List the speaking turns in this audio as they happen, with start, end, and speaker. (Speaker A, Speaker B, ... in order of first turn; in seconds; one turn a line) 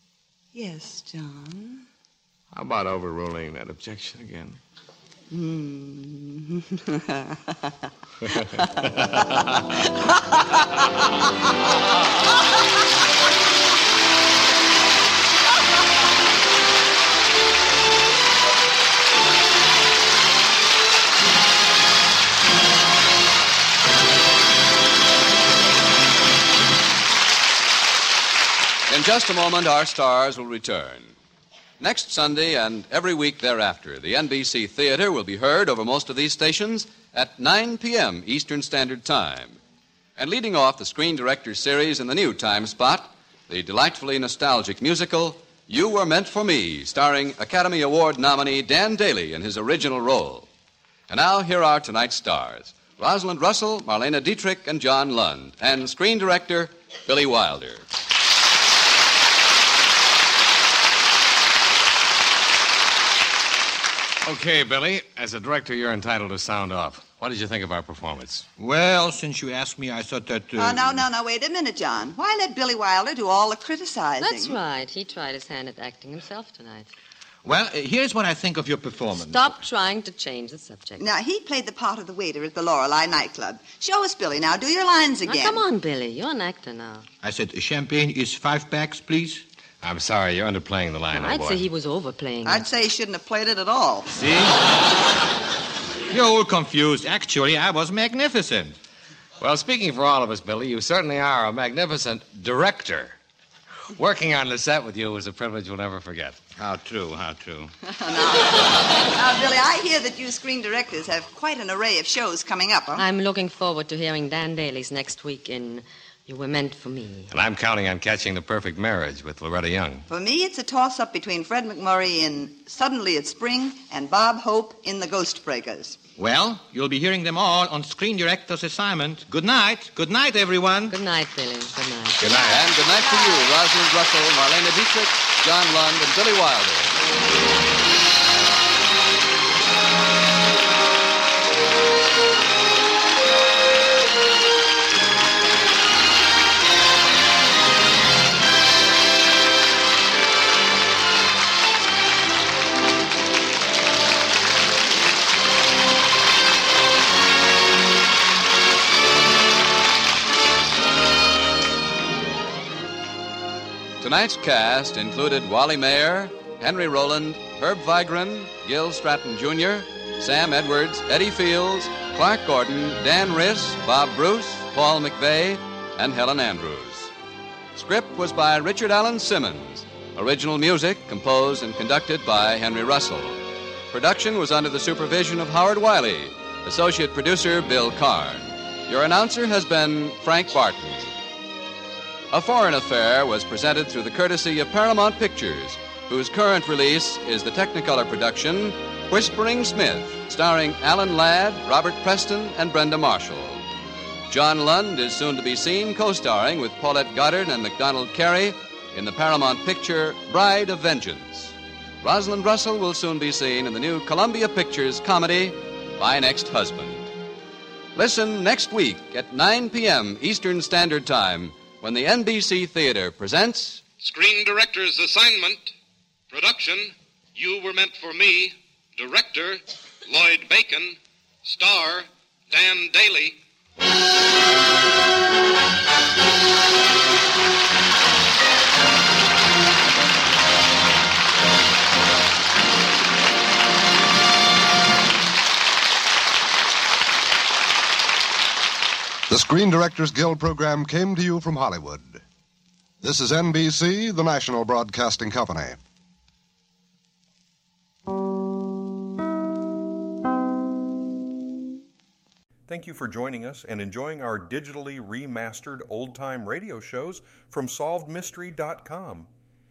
Speaker A: 0.5-1.9
Speaker B: 2.5-4.6
Speaker A: 5.3-7.7
Speaker A: 8.4-10.5
Speaker B: 8.8-9.4
Speaker C: 28.9-31.1
Speaker C: 31.8-39.6
Speaker C: 40.1-50.5
Speaker C: 51.1-57.8
Speaker B: 64.2-68.5
Speaker D: 68.6-71.0
Speaker A: 70.5-74.6
Speaker E: 74.2-76.9
Speaker D: 77.4-79.6
Speaker E: 79.2-81.0
Speaker A: 81.0-85.6
Speaker E: 85.2-87.1
Speaker D: 87.2-89.4
Speaker B: 89.8-91.6
Speaker E: 91.1-92.7
Speaker A: 92.4-94.1
Speaker D: 94.1-94.5
Speaker D: 96.1-98.7
Speaker B: 99.4-103.2
Speaker B: 103.9-106.4
Speaker D: 106.5-107.7
Speaker A: 107.9-113.0
Speaker E: 113.0-117.3
Speaker B: 117.3-120.1
Speaker A: 120.1-126.0
Speaker D: 126.2-130.9
Speaker E: 130.9-132.3
Speaker D: 132.2-132.6
Speaker C: 132.3-136.9
Speaker A: 133.0-133.4
Speaker C: 164.0-177.1
Speaker C: 177.7-183.4
Speaker C: 183.9-191.2
Speaker C: 192.3-203.7
Speaker C: 204.3-217.1
Speaker C: 217.9-223.8
Speaker F: 224.0-225.7
Speaker F: 226.3-233.4
Speaker G: 249.3-252.2
Speaker G: 253.0-255.8
Speaker H: 262.7-269.3